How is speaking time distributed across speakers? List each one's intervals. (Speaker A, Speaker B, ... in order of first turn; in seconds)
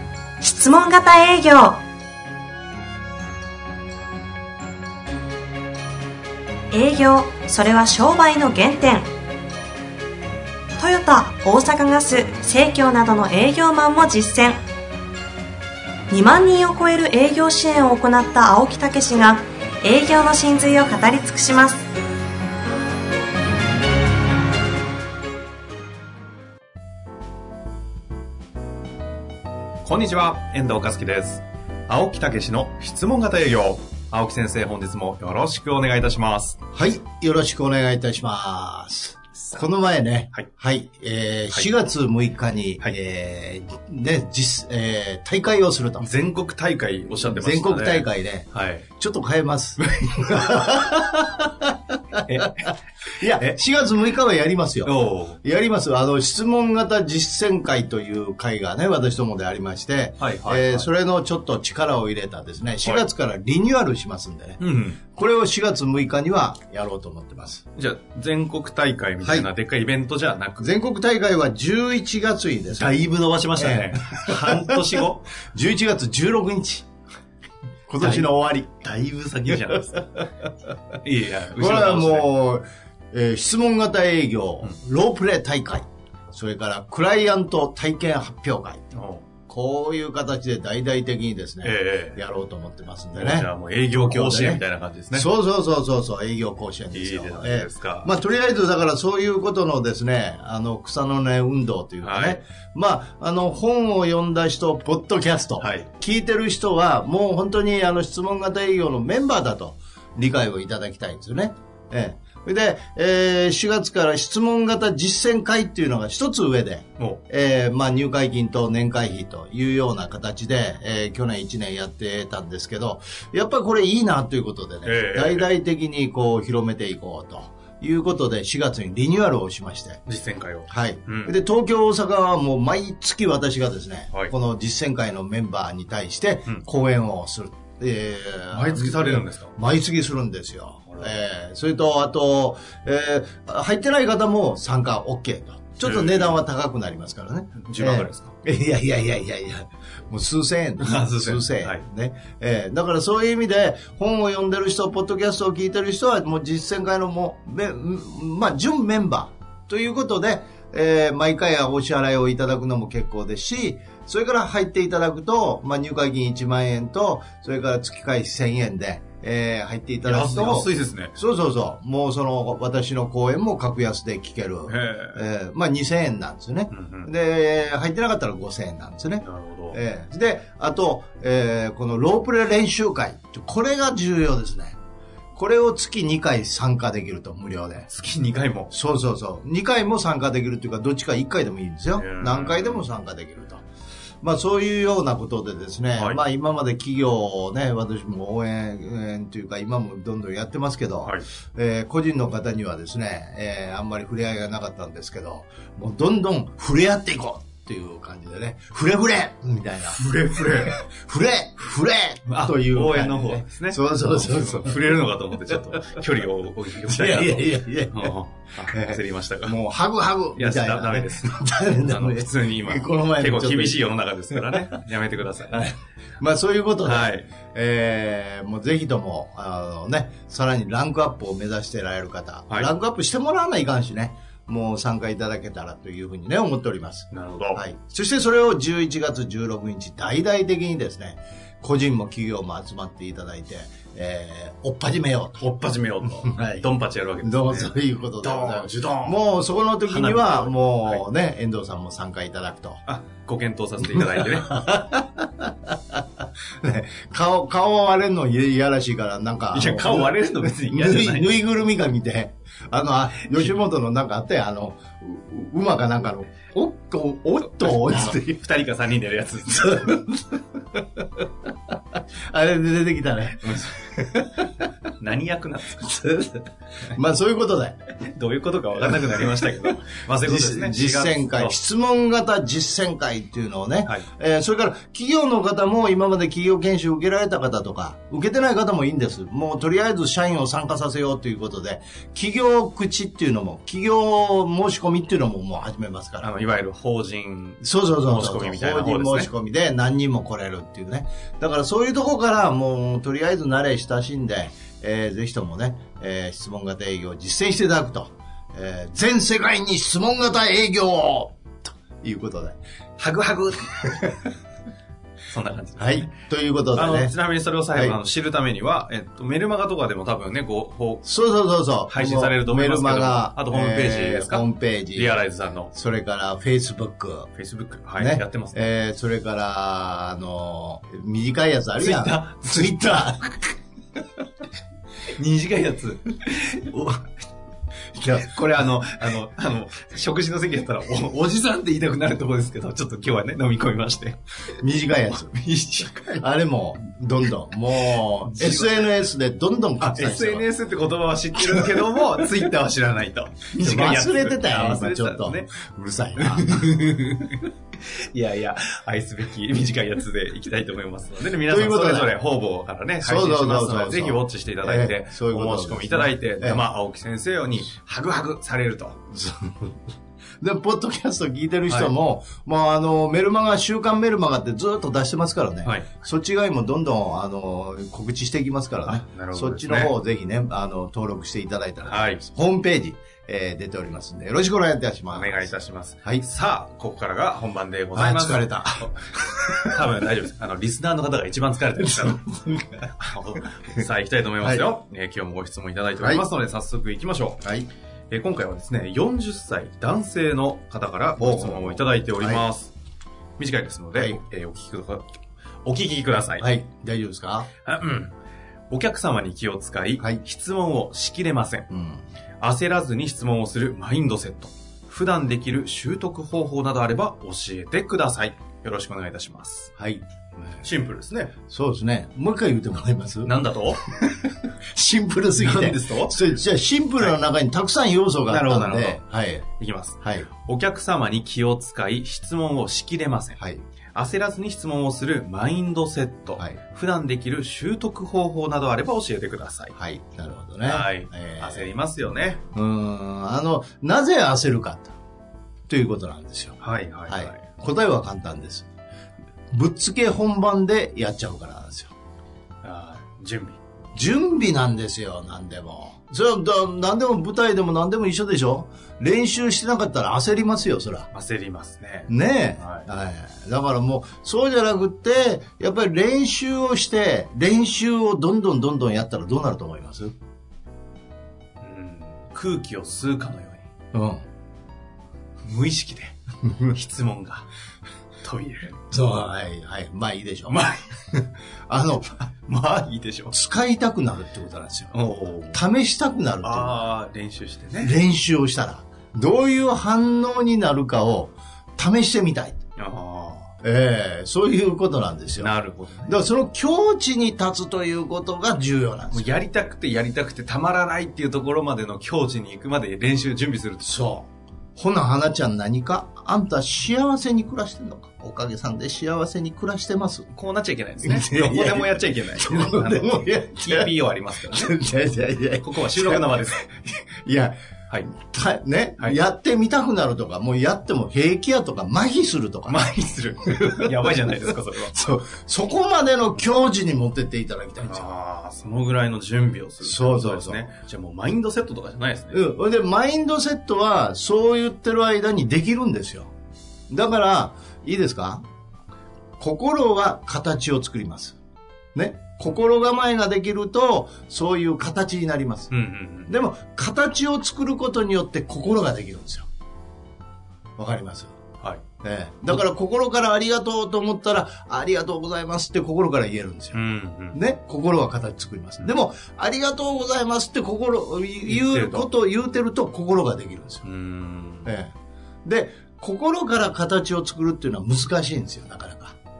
Speaker A: 0.4-1.8, 6.7-9.1, 10.8-14.6, 16.1-21.8
Speaker B: 29.8-36.6, 39.4-39.6, 46.0-48.9, 50.0-50.9, 52.2-53.6, 54.8-55.4, 60.2-60.9, 64.6-65.0, 67.7-70.7, 72.7-75.3, 78.0-78.3, 79.2-80.2, 81.0-82.3, 88.9-89.3, 91.6-92.2, 93.1-95.3, 96.9-98.1, 102.0-102.4, 105.6-105.9, 124.8-125.5, 130.1-131.3, 138.5-139.6, 140.9-141.2, 145.8-146.4, 147.6-148.3, 150.8-151.8, 170.0-171.2, 174.7-175.2, 176.7-177.1, 179.2-179.8, 187.9-188.8, 192.0-192.9, 195.9-196.2, 209.9-210.8, 212.3-219.6, 220.3-225.7, 226.8-227.3, 237.1-237.6, 245.4-249.2, 249.8-251.1, 252.8-254.7, 259.5-261.5, 263.2-263.6, 267.5-270.1, 275.0-276.0, 277.9-281.6, 296.2-299.3, 313.0-314.2, 315.3-316.2, 316.7-321.1, 321.9-325.7, 327.3-328.7, 331.8-333.2, 335.1-337.1, 338.0-344.2, 345.1-346.3, 347.9-349.0, 349.8-355.6, 356.2-369.0, 371.7-371.9, 375.6-376.0, 378.9-379.9, 381.9-382.2, 385.1-392.3, 393.0-397.5, 398.1-402.7, 403.4-405.1, 405.6-406.5, 407.6-408.1, 408.7-411.7, 412.4-419.7, 420.6-421.4, 423.2-424.2, 425.4-426.2, 428.3-433.4, 433.9-439.7, 440.6-442.4, 446.6-447.4, 452.6-453.6, 461.1-462.9, 471.6-473.7, 475.4-477.5, 478.2-478.8, 480.5-480.9, 482.4-483.4, 484.9-485.6, 486.4-488.0, 492.8-493.5, 495.4-496.3, 499.1-504.3, 510.3-514.7, 515.6-516.7, 522.7-525.0, 527.8-532.4, 545.7-546.4, 556.7-557.4, 561.5-562.1, 563.8-564.7
Speaker C: 36.7-46.1, 47.2-52.7, 53.2-64.6, 65.2-67.6, 69.2-69.5, 70.6-76.9, 77.9-80.5, 81.5-88.9, 89.5-130.0, 130.7-184.8, 185.3-187.9, 188.7-193.6, 194.2-215.0, 215.5-215.9, 216.8-224.7, 225.5-245.5, 246.1-252.8, 253.8-256.0, 256.6-268.4, 269.7-270.2, 272.3-274.7, 275.8-276.4, 276.9-277.8, 278.8-279.6, 280.2-296.3, 297.6-312.6, 315.8-317.1, 317.7-318.0, 321.0-327.3, 328.0-333.4, 337.9-338.3, 344.6-345.3, 346.2-350.5, 351.4-351.9, 353.5-357.2, 361.4-362.1, 363.0-366.6, 369.1-369.8, 370.4-385.4, 387.9-389.9, 391.8-392.9, 394.4-394.7, 396.0-396.3, 397.4-397.7, 401.2-402.5, 403.9-404.2, 406.4-407.5, 411.7-412.0, 419.8-420.6, 421.5-423.4, 424.7-429.4, 430.0-430.3, 433.4-433.6, 439.8-441.7, 442.5-444.9, 445.7-448.7, 449.5-451.9, 453.9-461.1, 462.1-470.1, 473.9-474.2, 478.9-480.7, 481.7-482.1, 483.3-484.9, 485.5-486.9, 487.8-492.6, 493.6-495.5, 496.1-499.4, 503.9-504.2, 504.8-510.3, 511.0-517.6, 518.1-522.9, 523.5-528.1, 529.8-530.7, 532.3-536.3, 536.9-538.4, 539.4-541.4, 542.0-545.7, 546.3-549.5, 550.8-551.3, 552.0-556.8, 557.3-563.9, 564.6-564.9, 565.5-569.1